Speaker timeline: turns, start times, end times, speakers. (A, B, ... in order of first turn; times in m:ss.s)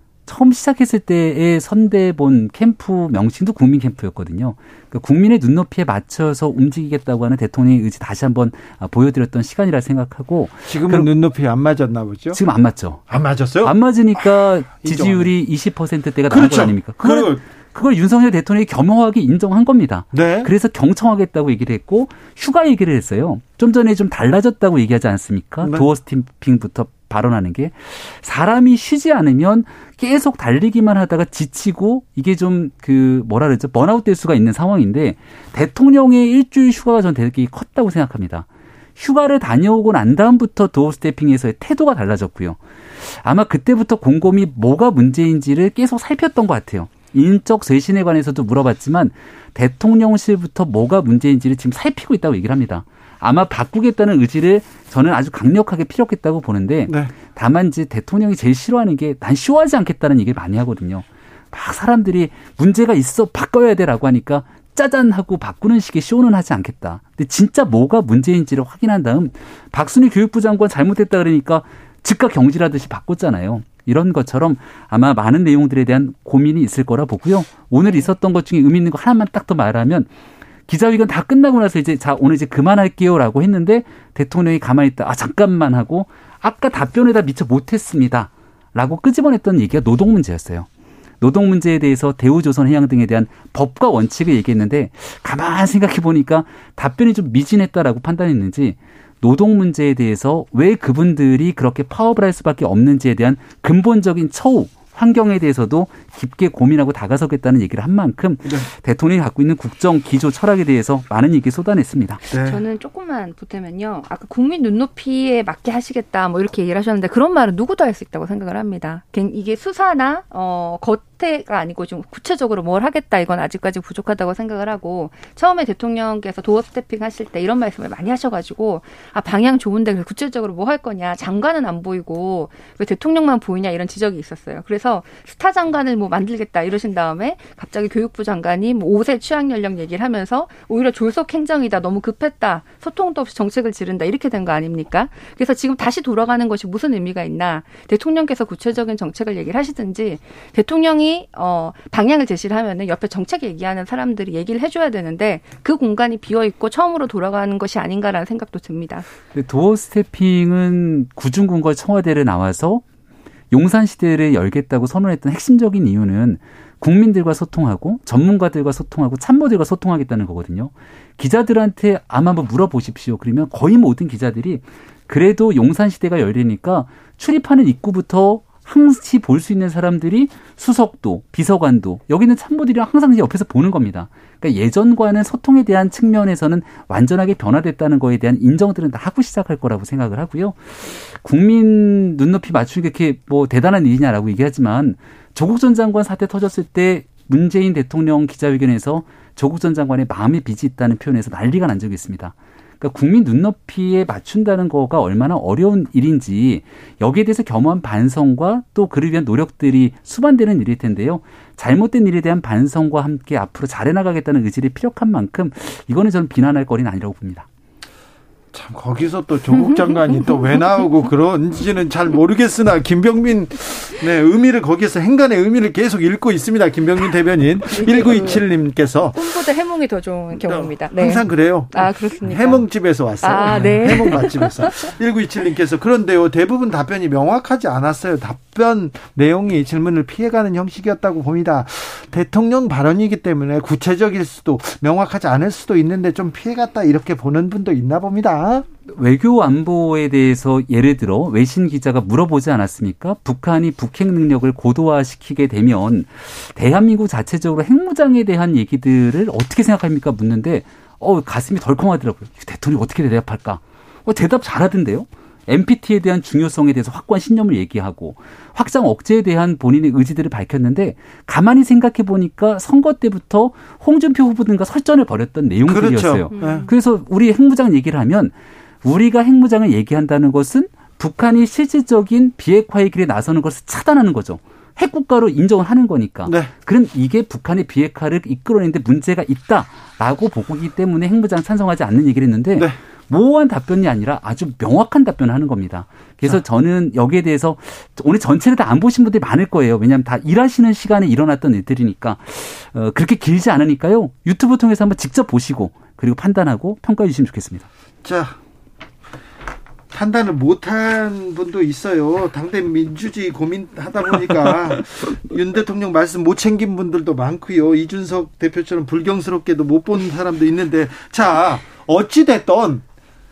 0:00.2-0:11.1 A
0:10.7-0:12.4 B
0:12.3-0:13.0 A
0:13.1-0:13.7 B
0:13.6-0:38.4 A
0:14.8-0:15.3 B
0:16.3-0:17.4 B
0:20.1-0:20.5 B
0:39.0-1:20.1 A
1:20.7-1:30.7 A
1:31.2-1:52.2 A
1:52.3-2:39.0 C
1:52.3-1:52.6 B
2:39.3-2:42.8 A
2:43.5-3:37.5 A
3:38.5-3:49.3 B
3:39.6-3:39.9 C
3:47.7-3:48.4 C
3:49.1-3:52.6 C
3:50.4-4:08.6 B
3:53.2-3:54.8 C
4:08.9-5:07.7 A
4:35.7-4:36.6 B
4:36.3-4:36.7 C
4:46.2-4:46.5 B
5:08.0-5:08.4 B
5:09.9-5:22.8 B